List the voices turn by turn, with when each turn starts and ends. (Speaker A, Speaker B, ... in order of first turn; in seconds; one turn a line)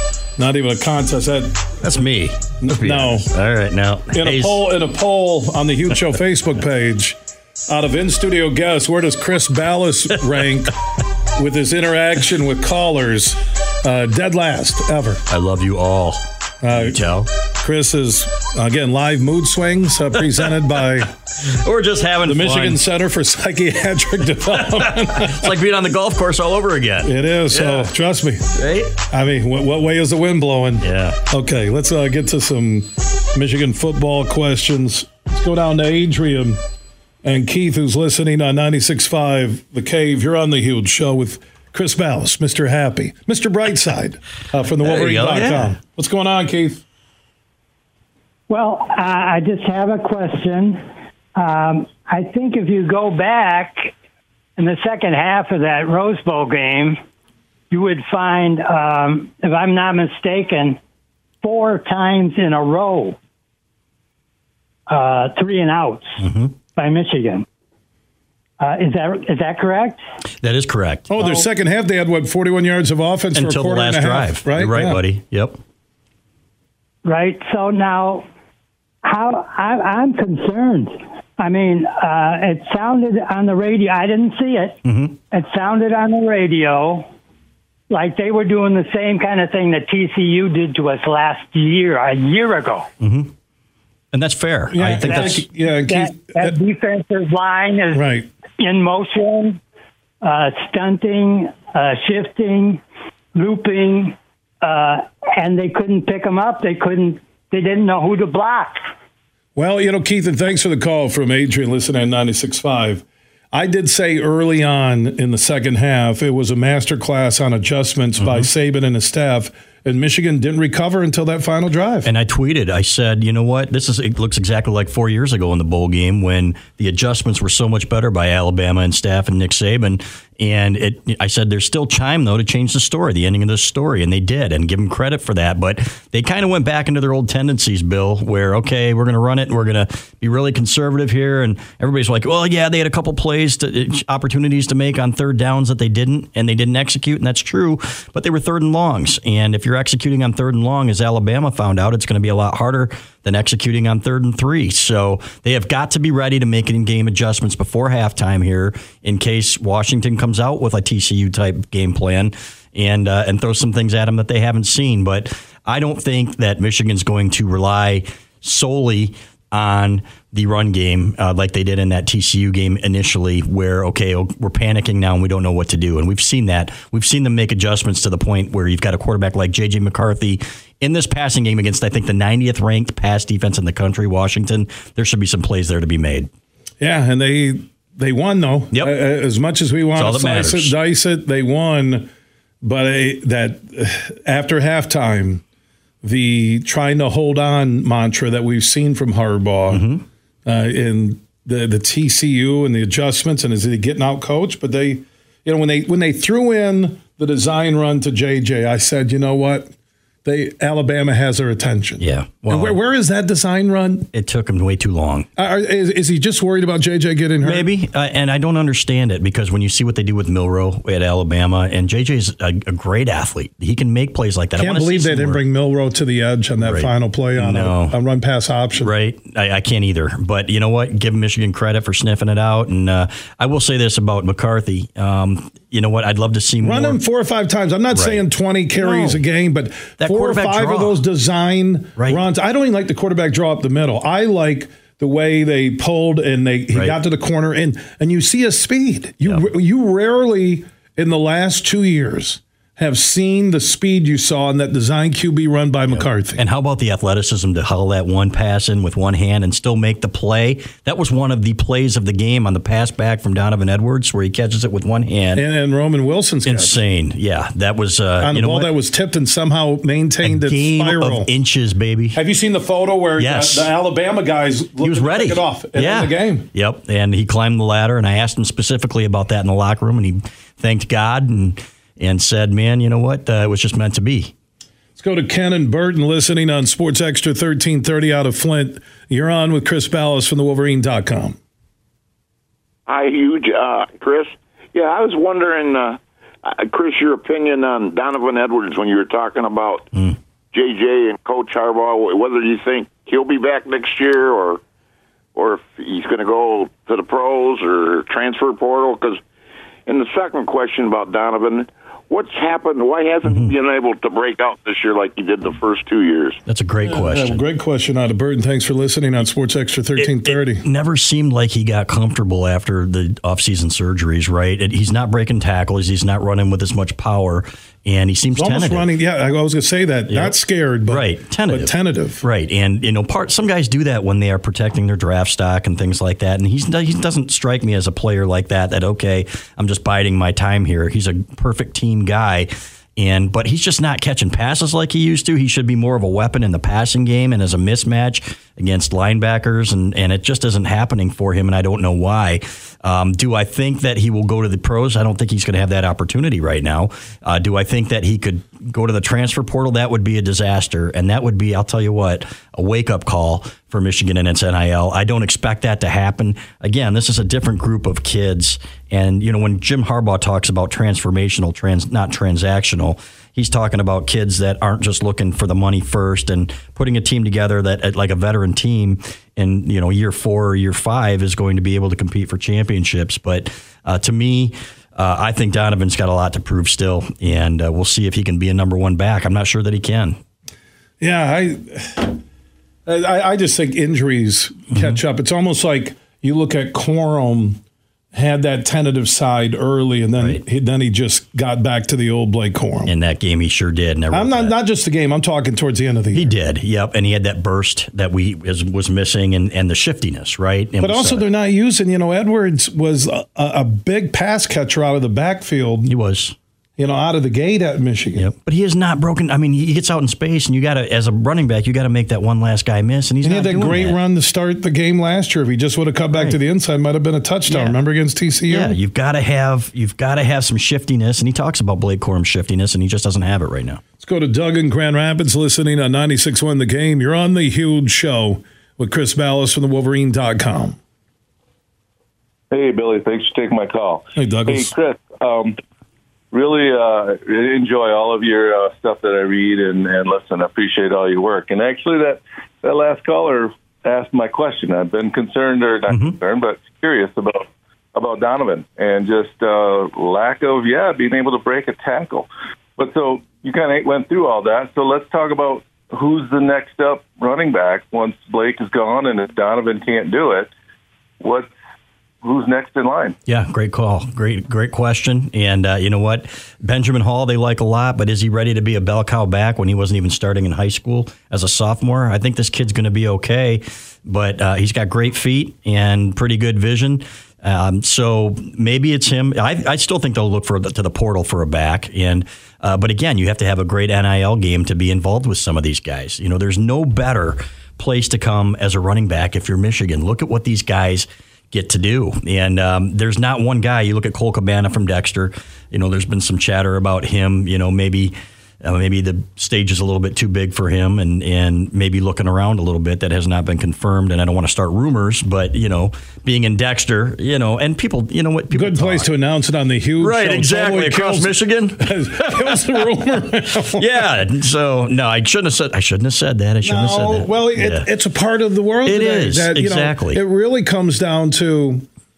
Speaker A: 0.4-1.8
Speaker B: 1.8-4.6
Speaker A: 2.6-3.3
Speaker A: 4.1-10.7
Speaker A: 11.3-15.2
Speaker B: 15.3-17.3
Speaker A: 16.6-17.1
Speaker A: 17.6-21.1
Speaker B: 21.4-22.8
Speaker A: 22.2-25.5
Speaker B: 24.5-27.9
Speaker A: 27.0-28.5
Speaker B: 28.6-28.9
Speaker A: 29.1-36.6
Speaker B: 30.8-31.2
Speaker A: 37.2-46.8
Speaker B: 44.8-45.7
Speaker C: 48.5-50.8
Speaker C: 51.4-53.9
Speaker C: 54.6-57.0
Speaker C: 57.7-60.8
Speaker C: 61.4-63.2
Speaker C: 64.9-66.2
Speaker B: 66.2-66.5
Speaker C: 66.7-67.4
Speaker C: 68.6-70.0
Speaker B: 70.4-71.1
Speaker A: 71.1-75.0
Speaker B: 73.3-75.6
Speaker C: 77.0-78.2
Speaker C: 79.0-84.8
Speaker B: 84.8-85.2
Speaker C: 85.3-87.1
Speaker C: 87.9-92.9
Speaker B: 93.0-93.3
Speaker B: 94.1-95.4
Speaker A: 94.7-96.5
Speaker C: 95.2-98.1
Speaker A: 97.9-98.3
Speaker C: 98.6-99.6
Speaker C: 100.2-102.8
Speaker C: 103.3-108.9
Speaker A: 109.5-122.1
Speaker B: 118.2-118.5
Speaker B: 122.0-186.3
Speaker A: 186.8-192.1
Speaker B: 189.9-190.7
Speaker A: 192.6-195.4
Speaker A: 196.0-199.8
Speaker B: 199.7-200.0
Speaker A: 200.4-209.7
Speaker A: 210.2-214.1
Speaker B: 212.0-212.8
Speaker B: 214.1-215.3
Speaker A: 215.3-217.7
Speaker B: 217.4-225.4
Speaker A: 224.6-228.9
Speaker B: 226.6-228.0
Speaker B: 228.8-237.0
Speaker A: 236.6-256.4
Speaker B: 237.9-238.2
Speaker B: 238.8-239.2
Speaker B: 240.0-241.0
Speaker B: 242.0-242.2
Speaker B: 246.7-247.0
Speaker B: 255.9-265.4
Speaker A: 265.3-266.8
Speaker B: 266.4-268.7
Speaker A: 268.2-271.3
Speaker B: 270.2-272.2
Speaker A: 272.1-276.5
Speaker B: 273.2-273.7
Speaker B: 274.8-284.3
Speaker A: 284.9-291.4
Speaker D: 292.9-299.9
Speaker D: 300.5-304.6
Speaker D: 305.3-309.2
Speaker D: 309.9-316.4
Speaker B: 313.3-313.5
Speaker B: 316.4-317.4
Speaker A: 316.8-320.6
Speaker B: 320.0-328.9
Speaker A: 328.4-332.2
Speaker B: 330.1-330.4
Speaker B: 330.9-390.2
Speaker A: 391.0-392.2
Speaker A: 392.9-397.6
Speaker B: 394.7-395.0
Speaker A: 398.1-402.9
Speaker B: 400.2-400.4
Speaker B: 402.9-404.5
Speaker A: 404.1-406.4
Speaker B: 406.1-411.2
Speaker A: 410.8-415.9
Speaker B: 415.9-416.3
Speaker A: 416.8-418.3
Speaker B: 418.1-424.0
Speaker A: 423.2-428.8
Speaker B: 426.1-426.4
Speaker B: 427.5-427.8
Speaker B: 428.5-433.8
Speaker A: 434.0-440.8
Speaker E: 442.5-445.6
Speaker A: 444.1-444.7
Speaker E: 446.3-470.5
Speaker B: 455.9-456.1
Speaker E: 471.2-471.5
Speaker E: 472.2-473.1
Speaker B: 473.3-519.1
Speaker A: 518.5-524.0
Speaker B: 520.0-522.8
Speaker B: 523.7-527.9
Speaker A: 526.6-531.9
Speaker B: 528.9-530.2